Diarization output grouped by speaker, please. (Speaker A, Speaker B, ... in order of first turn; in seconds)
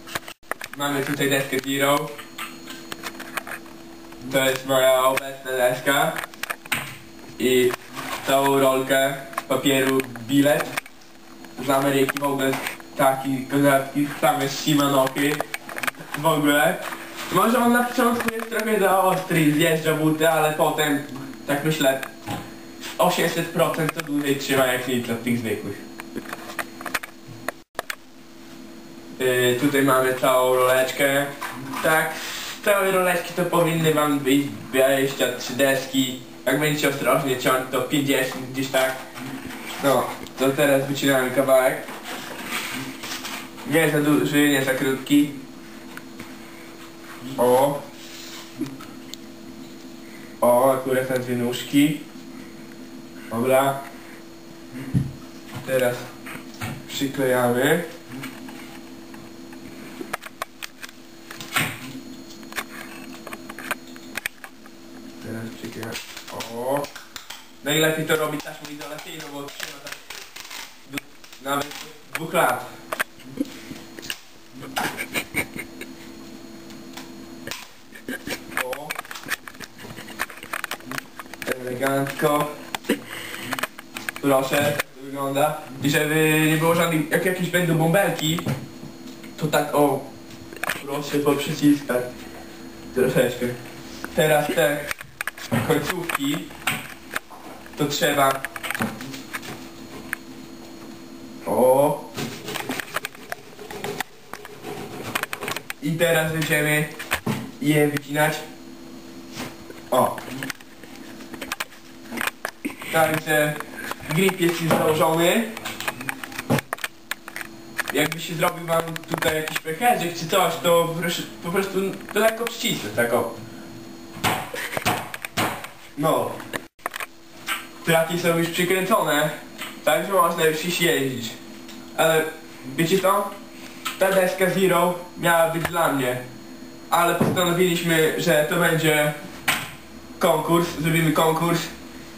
Speaker A: 0.7-2.1, 4.3-6.2, 7.4-10.8, 11.6-15.4, 16.1-22.1, 22.8-25.8, 29.2-39.0, 39.8-41.9, 43.6-45.4, 47.4-47.8, 50.4-52.0, 53.3-53.8, 55.6-56.1, 56.9-57.9, 65.2-66.9, 67.6-70.0, 70.9-72.7, 78.5-79.0, 81.5-82.5, 84.2-88.5, 89.4-90.0, 90.8-92.1, 92.9-93.6, 94.1-94.9, 95.5-96.5, 97.8-98.4, 101.5-102.0, 105.8-106.9, 107.6-108.4, 109.9-110.2, 112.9-115.5, 117.9-123.3, 126.0-126.4, 127.8-131.4, 131.9-133.3, 134.0-136.2, 136.9-139.2, 140.2-141.7